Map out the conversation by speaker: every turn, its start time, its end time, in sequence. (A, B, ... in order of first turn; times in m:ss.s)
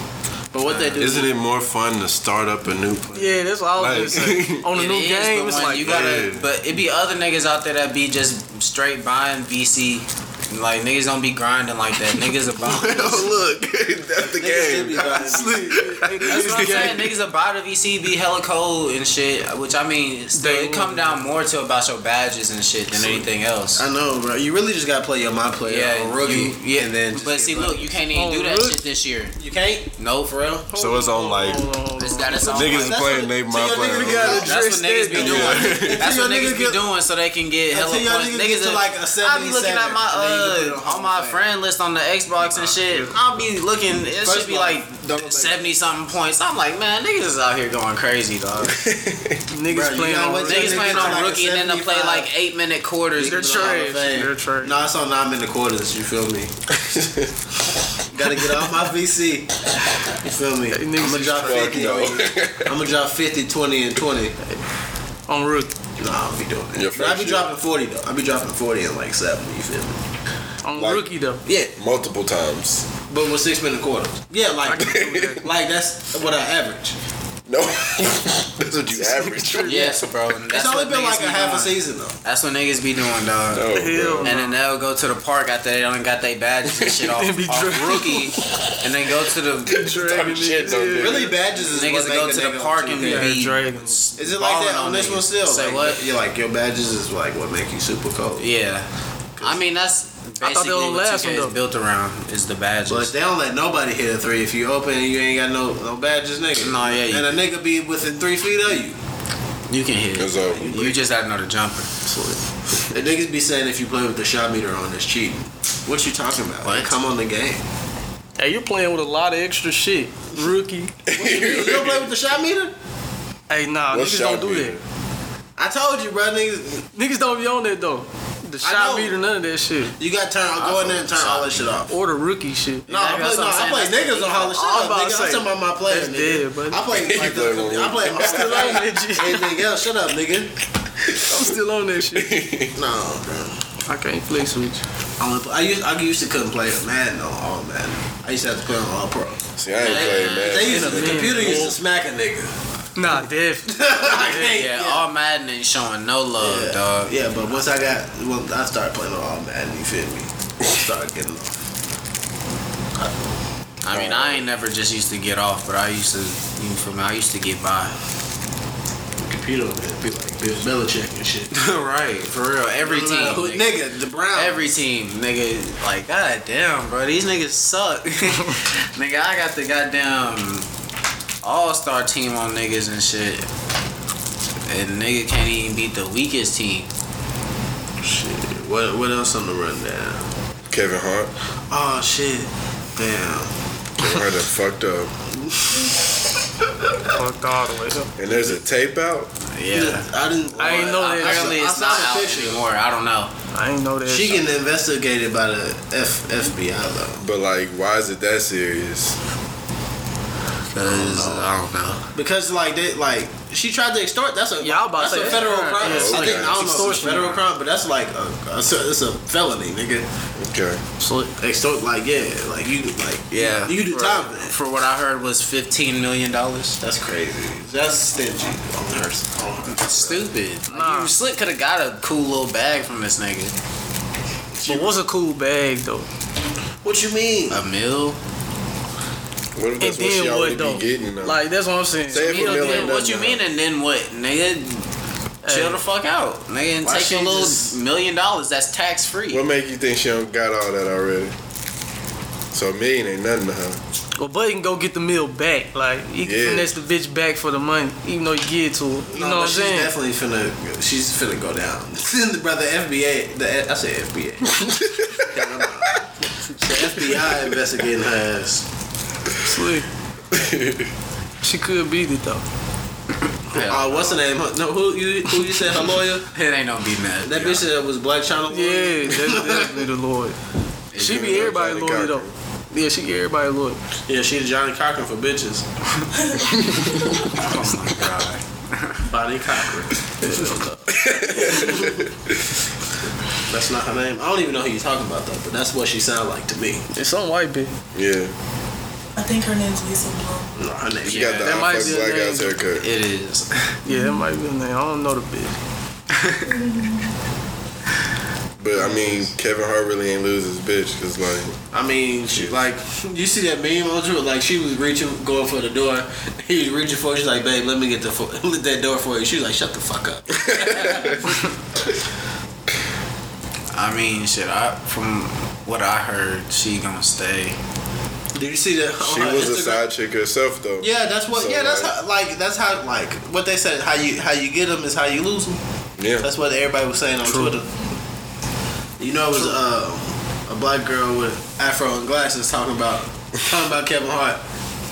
0:00.5-0:01.4 A
0:00.7-0:01.0 B
0:01.0-0:04.7 C
0:03.1-0:06.3 D
0:04.7-0:13.4 B
0:05.8-0:06.5 C
0:12.6-0:17.0 C
0:14.4-0:15.9 A
0:15.2-0:17.1 D
0:16.2-0:23.8 B
0:20.3-0:21.2 D
0:22.9-0:27.9 A
0:25.7-0:29.4 B
0:28.1-0:28.8 D
0:29.4-0:30.6 A
0:30.0-0:30.6 B
0:30.7-0:33.0 D
0:30.7-0:31.7 C
0:32.0-0:33.3 B
0:32.5-0:34.5 C
0:33.3-0:34.6 A
0:33.7-0:35.8 D
0:34.4-0:48.8 B
0:35.1-0:36.8 A
0:35.2-0:36.1 C
0:37.7-0:41.5 A
0:42.8-0:43.1 A
0:44.2-0:45.7 A
0:48.7-0:49.4 C
0:49.5-0:51.2 D
0:49.7-0:52.3 A
0:50.4-0:53.8 B
0:53.2-0:56.6 A
0:53.2-0:54.7 D
0:56.8-0:57.3 C
0:58.1-1:04.4 A
1:00.7-1:01.9 D
1:01.4-1:02.7 C
1:05.3-1:05.7 D
1:06.0-1:10.0 A
1:06.7-1:07.5 C
1:10.6-1:11.4 D
1:10.8-1:11.1 C
1:11.7-1:12.9 C
1:13.1-1:17.0 A
1:14.6-1:15.4 D
1:14.7-1:15.4 C
1:17.5-1:20.0 C
1:19.1-1:19.9 D
1:19.6-1:29.9 B
1:20.5-1:22.2 A
1:23.5-1:24.3 C
1:23.7-1:24.6 D
1:27.2-1:28.4 D
1:29.7-1:31.4 C
1:29.7-1:31.4 D
1:31.0-1:33.4 A
1:31.7-1:36.1 B
1:33.0-1:34.0 D
1:34.2-1:38.5 A
1:38.4-1:38.9 B
1:39.4-1:43.1 B
1:40.4-1:41.6 D
1:42.9-1:49.0 A
1:46.6-1:47.4 B
1:49.7-1:51.9 B
1:50.2-1:50.8 C
1:50.5-1:51.1 A
1:52.0-1:57.6 A
1:56.6-1:57.0 B
1:58.4-2:01.0 D
2:01.1-2:02.1 C
2:01.1-2:02.7 A
2:03.5-2:04.8 D
2:03.9-2:04.8 C
2:05.6-2:06.9 A
2:07.0-2:10.0 D
2:08.6-2:09.2 A
2:10.0-2:11.9 A
2:10.6-2:11.7 B
2:11.9-2:12.9 D
2:12.9-2:14.6 B
2:12.9-2:20.5 A
2:14.5-2:16.9 D
2:16.9-2:18.8 C
2:18.1-2:19.6 D
2:21.1-2:22.4 D
2:22.1-2:22.8 C
2:22.8-2:23.6 A
2:23.9-2:24.8 D
2:25.2-2:32.6 A
2:29.6-2:31.3 C
2:29.8-2:31.5 B
2:30.6-2:31.8 D
2:33.0-2:34.6 D
2:33.7-2:35.0 A
2:34.6-2:37.1 B
2:36.4-2:41.7 A
2:43.0-2:43.2 A
2:43.8-2:48.0 B
2:43.9-2:44.4 C
2:49.2-2:51.5 A
2:51.5-2:53.8 B
2:52.8-2:54.8 A
2:54.3-3:00.7 B
3:01.4-3:03.5 B
3:04.7-3:06.9 B
3:08.0-3:10.3 A
3:10.7-3:11.3 C
3:11.7-3:13.5 A
3:14.0-3:15.1 C
3:15.4-3:16.1 A
3:17.1-3:18.1 D
3:18.2-3:19.3 C
3:19.5-3:20.1 B
3:19.7-3:22.6 A
3:20.6-3:21.6 D
3:21.1-3:23.3 B
3:23.5-3:24.5 D
3:24.1-3:27.2 A
3:27.2-3:29.2 C
3:30.7-3:32.1 B
3:30.8-3:31.5 A
3:32.1-3:40.1 A
3:34.6-3:37.4 D
3:35.0-3:36.8 B
3:35.8-3:36.7 C
3:40.4-3:40.8 C
3:41.0-3:41.3 D
3:41.4-3:44.6 A
3:43.3-3:46.8 B
3:46.8-3:50.3 A
3:49.7-3:53.6 B
3:50.7-3:51.1 D
3:54.6-3:54.9 A
3:54.6-3:56.1 D
3:56.8-3:57.6 A
3:57.5-3:58.2 B
3:59.6-4:01.4 C
3:59.8-4:02.9 D
4:02.1-4:03.4 C
4:02.1-4:04.9 B
4:05.4-4:05.8 D
4:05.4-4:09.4 B
4:06.8-4:07.8 A
4:09.3-4:11.4 C
4:12.5-4:13.8 C
4:14.2-4:19.9 D
4:16.2-4:16.7 C
4:19.1-4:28.6 A
4:24.6-4:25.3 C
4:27.2-4:27.6 C
4:29.4-4:29.9 D
4:30.3-4:30.9 C
4:31.4-4:32.4 D
4:33.5-4:34.2 B
4:33.5-4:36.3 A
4:36.3-4:37.7 B
4:37.2-4:39.9 A
4:38.5-4:40.4 D
4:40.9-4:41.5 B
4:41.0-4:42.3 C
4:41.0-4:43.8 D
4:44.1-4:45.6 A
4:46.4-4:47.0 E
4:46.6-4:46.9 C
4:47.3-4:49.0 B
4:49.0-4:52.0 A
4:50.2-4:50.6 D
4:50.9-4:52.5 C
4:53.4-4:56.9 A
4:56.9-4:57.7 D
4:57.9-4:58.3 C
4:59.2-5:00.5 E
5:00.6-5:01.6 A
5:01.0-5:02.8 C
5:01.1-5:01.5 B
5:01.4-5:02.6 D
5:02.7-5:03.8 B
5:03.9-5:05.6 D
5:03.9-5:04.2 E
5:06.2-5:06.4 B
5:06.4-5:07.1 E
5:08.6-5:11.6 C
5:08.8-5:09.1 A
5:11.7-5:21.4 A
5:20.4-5:21.2 C
5:23.7-5:27.6 B
5:28.3-5:29.8 A
5:29.0-5:32.0 C
5:30.8-5:35.6 A
5:36.0-5:36.3 C
5:36.2-5:37.7 A
5:37.2-5:37.6 D
5:39.0-5:44.4 A